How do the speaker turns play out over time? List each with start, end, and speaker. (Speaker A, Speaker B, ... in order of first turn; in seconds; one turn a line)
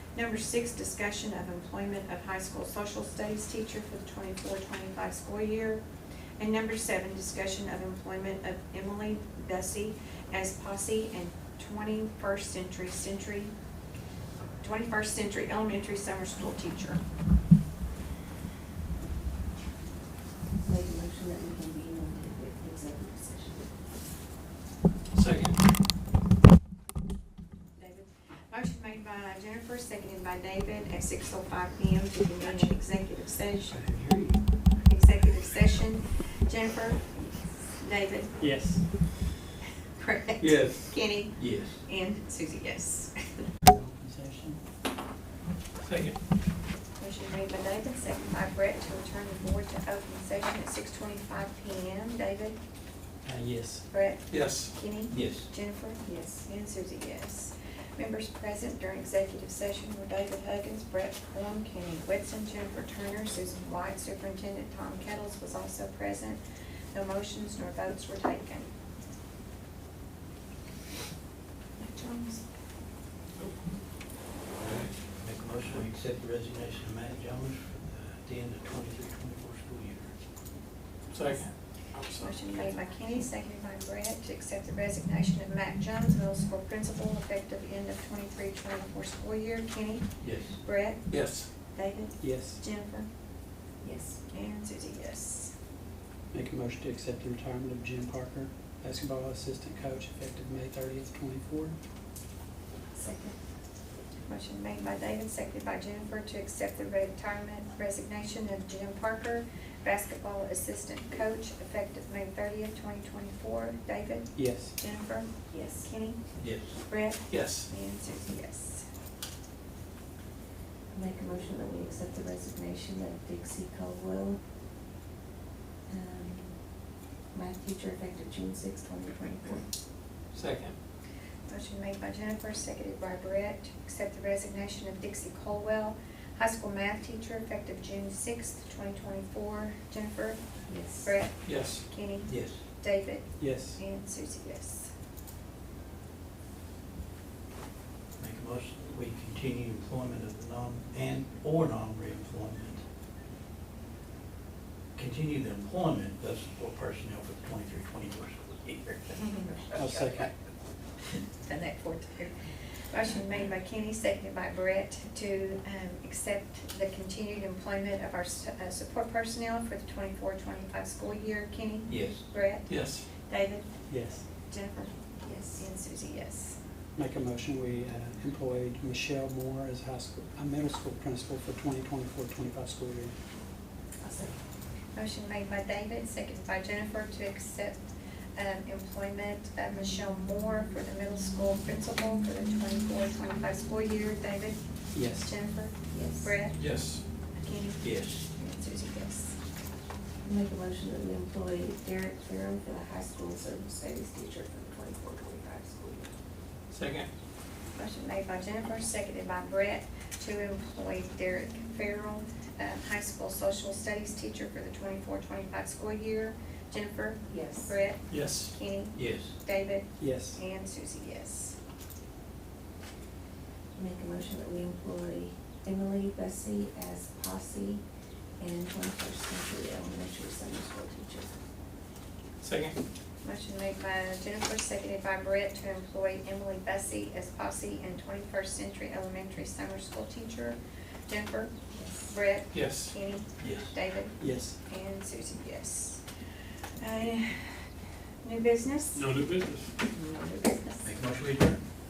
Speaker A: 0.1-5.8
Speaker A: 6.4-13.5
Speaker A: 14.6-17.0
Speaker B: 20.6-23.7
Speaker C: 25.1-25.6
Speaker A: 27.8-33.8
Speaker D: 33.7-34.4
Speaker A: 34.9-38.4
Speaker D: 38.4-38.9
Speaker A: 40.0-43.5
Speaker C: 40.4-41.0
Speaker E: 41.4-41.8
Speaker D: 43.6-44.6
Speaker C: 45.8-46.2
Speaker A: 47.0-52.6
Speaker D: 53.2-53.9
Speaker A: 53.9-66.4
Speaker C: 54.3-54.8
Speaker E: 55.1-55.5
Speaker B: 56.0-56.5
Speaker A: 66.9-68.7
Speaker A: 71.8-72.4
Speaker C: 73.4-73.6
Speaker E: 74.6-80.1
Speaker C: 81.1-82.8
Speaker A: 82.1-93.1
Speaker E: 90.2-90.6
Speaker C: 91.1-91.5
Speaker D: 92.2-92.6
Speaker B: 93.8-94.2
Speaker A: 94.3-95.5
Speaker D: 96.3-101.8
Speaker B: 102.9-103.4
Speaker A: 104.3-118.8
Speaker D: 114.3-114.8
Speaker B: 115.5-115.9
Speaker E: 116.4-116.8
Speaker C: 117.3-117.7
Speaker B: 120.9-124.4
Speaker B: 125.9-126.6
Speaker B: 127.3-129.7
Speaker C: 130.3-130.8
Speaker A: 131.5-140.4
Speaker B: 140.7-141.1
Speaker A: 141.0-144.9
Speaker C: 141.4-141.9
Speaker E: 142.2-142.6
Speaker D: 143.4-143.8
Speaker E: 148.2-152.8
Speaker E: 155.0-159.1
Speaker A: 159.2-159.5
Speaker D: 159.8-160.3
Speaker A: 161.4-162.3
Speaker A: 162.9-173.7
Speaker E: 171.9-172.3
Speaker C: 172.7-173.1
Speaker D: 173.9-174.2
Speaker A: 174.5-176.6
Speaker D: 177.0-183.1
Speaker B: 184.0-184.4
Speaker A: 184.9-187.8
Speaker A: 188.4-196.6
Speaker D: 194.9-195.3
Speaker B: 195.9-196.3
Speaker C: 196.6-197.0
Speaker A: 197.3-199.4
Speaker E: 197.8-198.2
Speaker B: 200.2-206.1
Speaker C: 206.7-207.1
Speaker A: 207.8-221.6
Speaker B: 217.3-217.8
Speaker C: 218.1-218.6
Speaker E: 218.9-219.3
Speaker D: 220.0-220.4
Speaker B: 223.8-227.8
Speaker B: 228.4-231.3
Speaker C: 232.4-232.8
Speaker A: 233.2-241.5
Speaker B: 241.7-242.2
Speaker A: 242.1-246.1
Speaker C: 242.5-242.9
Speaker E: 243.4-243.7
Speaker D: 244.2-244.6
Speaker A: 246.8-247.7
Speaker A: 248.2-249.1
Speaker C: 248.9-249.7
Speaker B: 249.9-250.5
Speaker A: 250.2-250.9
Speaker E: 250.8-251.6